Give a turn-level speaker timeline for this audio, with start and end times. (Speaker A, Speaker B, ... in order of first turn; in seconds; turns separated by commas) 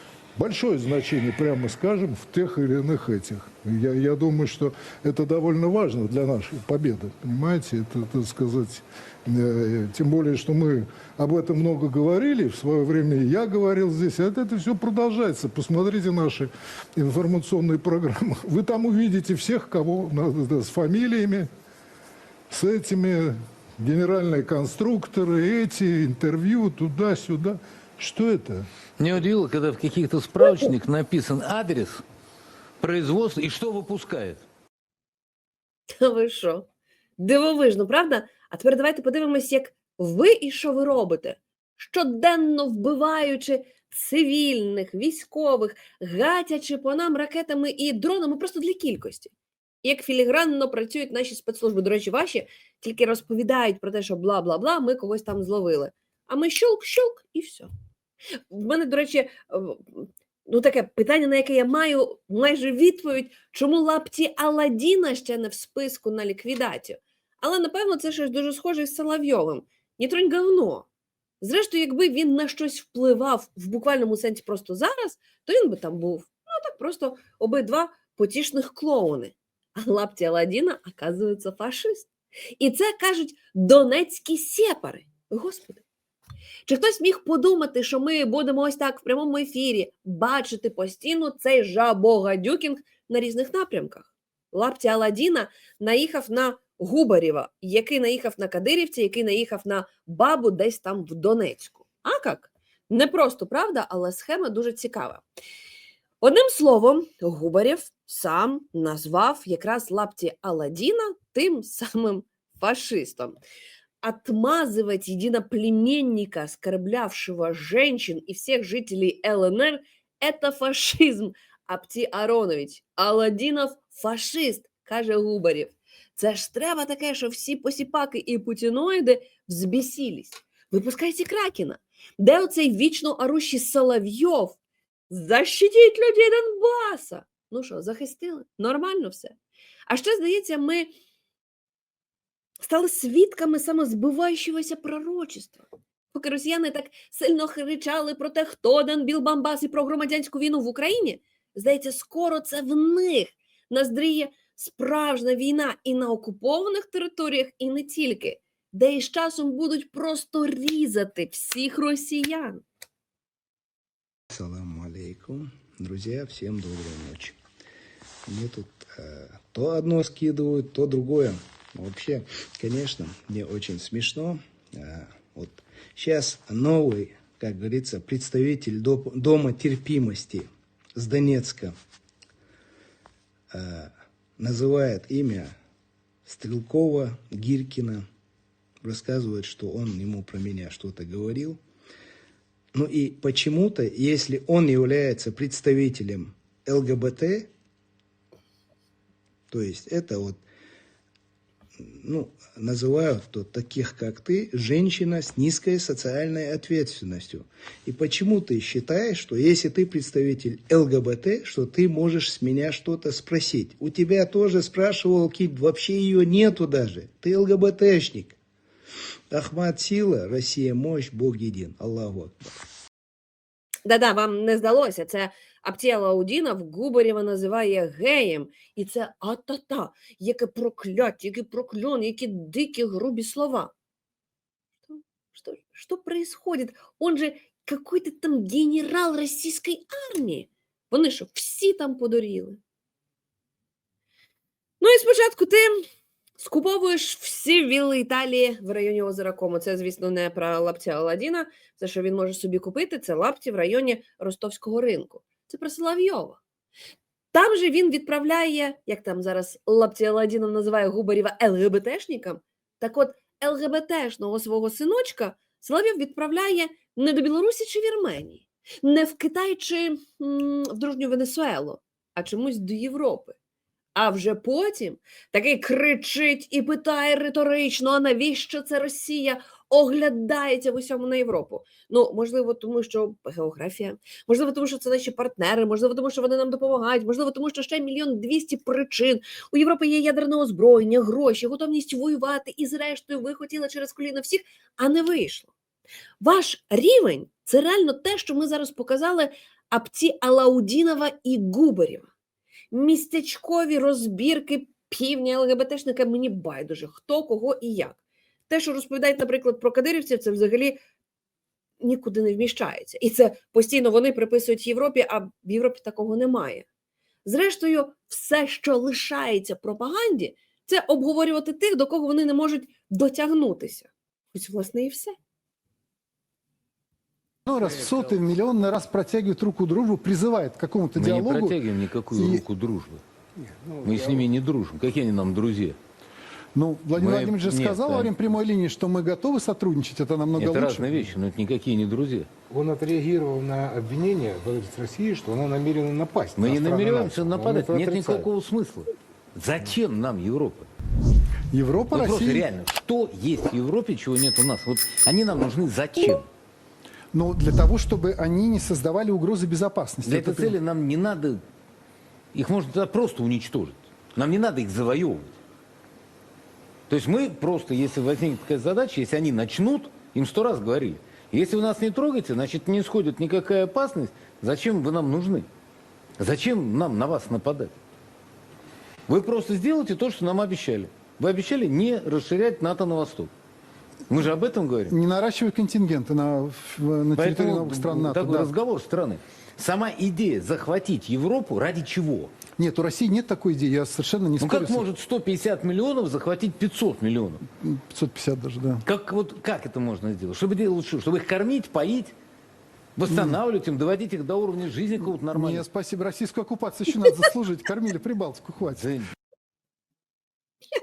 Speaker A: 0.3-21.5, Speaker A: 22.5-28.7, Speaker B: 29.0-32.0, Speaker B: 32.8-34.4, Speaker C: 36.0-36.6, Speaker C: 37.2-49.3, Speaker C: 49.8-57.7, Speaker C: 58.5-70.8, Speaker C: 71.4-85.8, Speaker C: 86.7-105.2, Speaker C: 106.2-113.4, Speaker C: 114.0-134.6, Speaker C: 135.1-139.3, Speaker C: 139.9-140.9, Speaker C: 142.6-162.6, Speaker D: 164.3-167.4, Speaker D: 168.2-181.7, Speaker D: 183.5-185.6, Speaker D: 186.2-188.1, Speaker D: 188.8-191.6, Speaker D: 192.7-197.5, Speaker D: 199.5-200.4, Speaker D: 201.8-218.4, Speaker D: 219.3-222.6, Speaker C: 223.8-233.7, Speaker C: 234.9-242.6, Speaker C: 244.8-245.8, Speaker C: 246.4-256.4, Speaker C: 257.3-273.3, Speaker C: 273.9-295.5, Speaker C: 296.2-302.1, Speaker C: 302.7-310.8, Speaker C: 311.8-316.6, Speaker C: 317.2-325.1, Speaker E: 327.4-331.6, Speaker B: 330.9-333.0, Speaker E: 332.1-332.4, Speaker F: 333.4-334.3, Speaker B: 333.8-335.8, Speaker E: 336.5-341.1, Speaker B: 336.9-338.1, Speaker B: 340.4-342.3, Speaker F: 342.5-348.3, Speaker B: 346.4-350.7, Speaker E: 351.5-352.4, Speaker B: 351.9-356.3, Speaker E: 357.1-360.5, Speaker B: 360.0-361.4, Speaker B: 362.3-365.4, Speaker B: 366.9-375.5, Speaker B: 376.2-377.8, Speaker B: 379.1-383.3, Speaker B: 384.1-384.9, Speaker E: 384.9-388.5, Speaker B: 387.1-392.4, Speaker E: 392.6-394.8, Speaker B: 394.4-397.4, Speaker E: 397.6-398.8, Speaker B: 398.8-402.1, Speaker B: 402.9-405.6, Speaker E: 405.3-408.9, Speaker B: 408.8-409.1